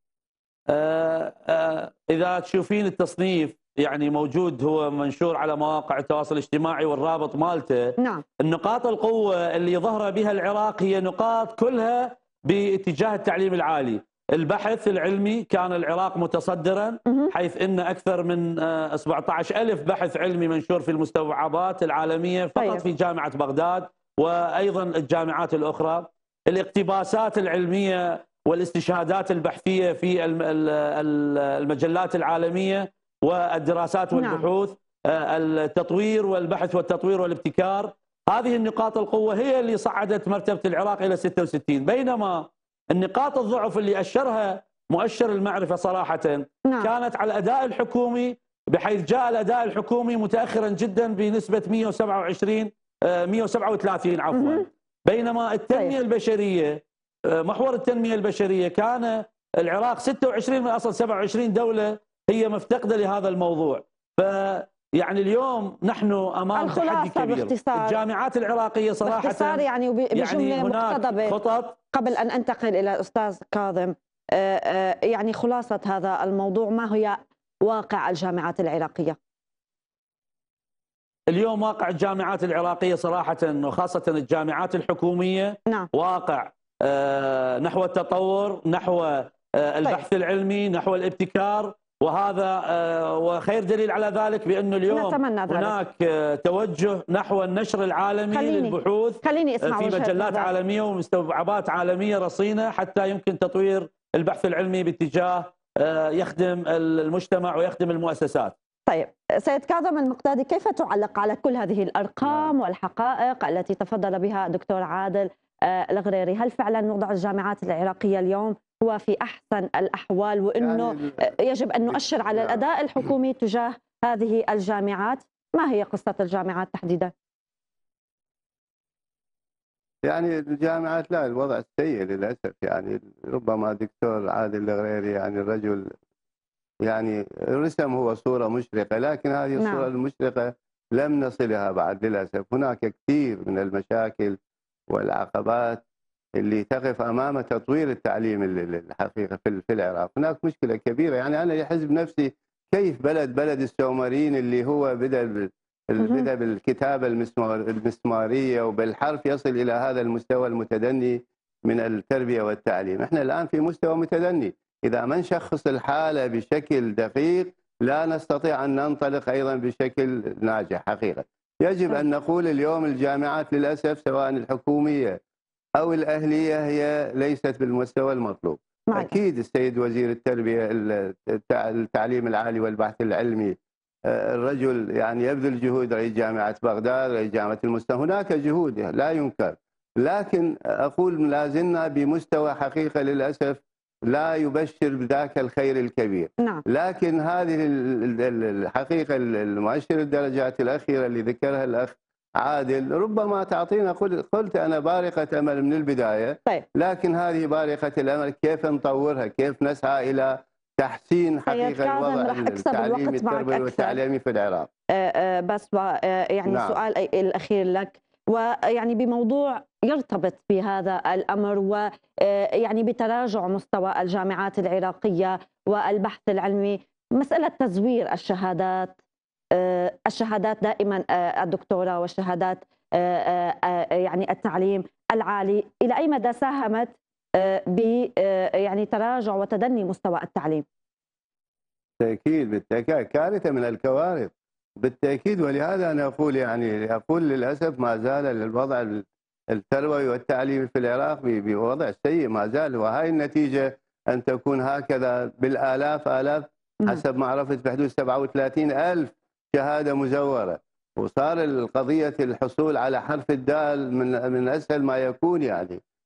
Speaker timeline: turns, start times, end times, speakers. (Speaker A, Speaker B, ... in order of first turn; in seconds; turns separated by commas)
Speaker A: 0.7-71.8, Speaker B: 8.0-8.2, Speaker B: 17.1-17.3, Speaker B: 22.6-22.8, Speaker B: 34.1-34.4, Speaker B: 46.6-46.9, Speaker B: 54.3-54.6, Speaker B: 66.5-68.0, Speaker B: 69.0-71.3, Speaker B: 71.9-79.2, Speaker A: 81.3-108.5, Speaker B: 94.9-95.8, Speaker B: 98.3-100.5, Speaker B: 108.9-127.1, Speaker C: 112.2-112.5, Speaker C: 120.6-121.2, Speaker C: 121.8-122.6, Speaker C: 130.0-135.9, Speaker C: 136.8-144.4, Speaker B: 139.6-139.9, Speaker C: 144.9-145.8, Speaker C: 146.4-175.2, Speaker B: 156.0-156.3, Speaker C: 175.8-214.7, Speaker B: 211.4-214.0, Speaker B: 214.9-228.9, Speaker C: 216.5-216.8, Speaker B: 229.6-240.6, Speaker C: 242.0-265.8